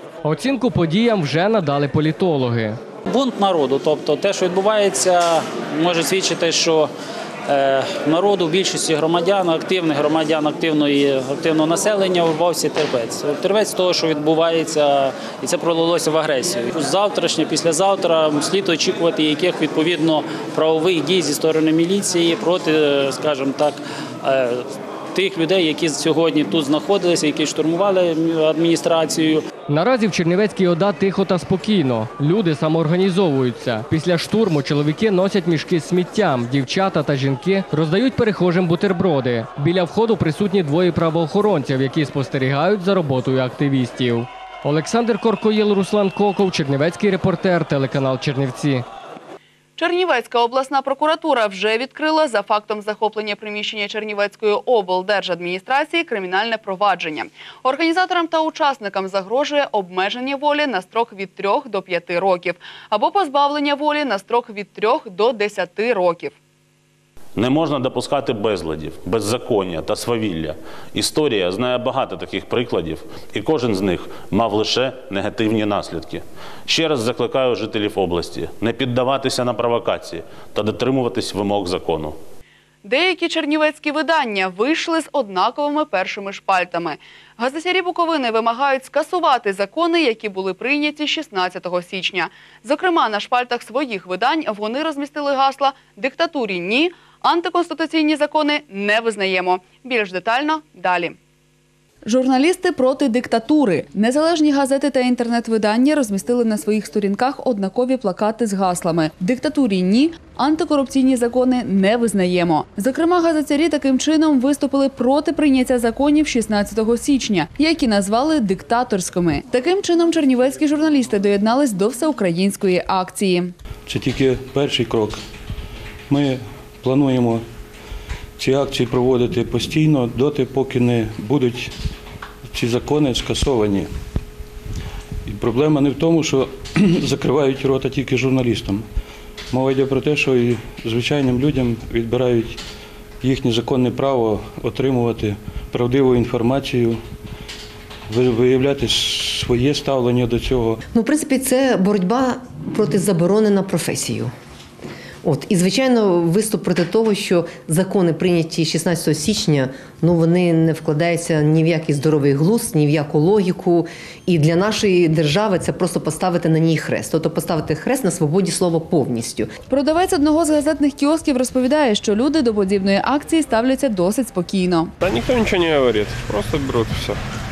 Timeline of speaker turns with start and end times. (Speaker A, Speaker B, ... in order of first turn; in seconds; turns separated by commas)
Speaker A: 0.3-2.8, Speaker B: 3.1-6.9, Speaker B: 7.5-29.4, Speaker A: 29.7-48.9, Speaker C: 49.8-66.3, Speaker D: 67.4-82.2, Speaker C: 82.8-101.2, Speaker C: 102.1-123.5, Speaker E: 123.9-125.2, Speaker E: 126.1-127.4, Speaker E: 128.4-131.7, Speaker E: 132.5-133.9, Speaker E: 135.3-138.8, Speaker E: 139.5-142.6, Speaker E: 143.2-147.0, Speaker E: 148.1-150.8, Speaker F: 150.9-154.3, Speaker F: 155.2-169.5, Speaker C: 169.7-174.9, Speaker G: 175.0-177.2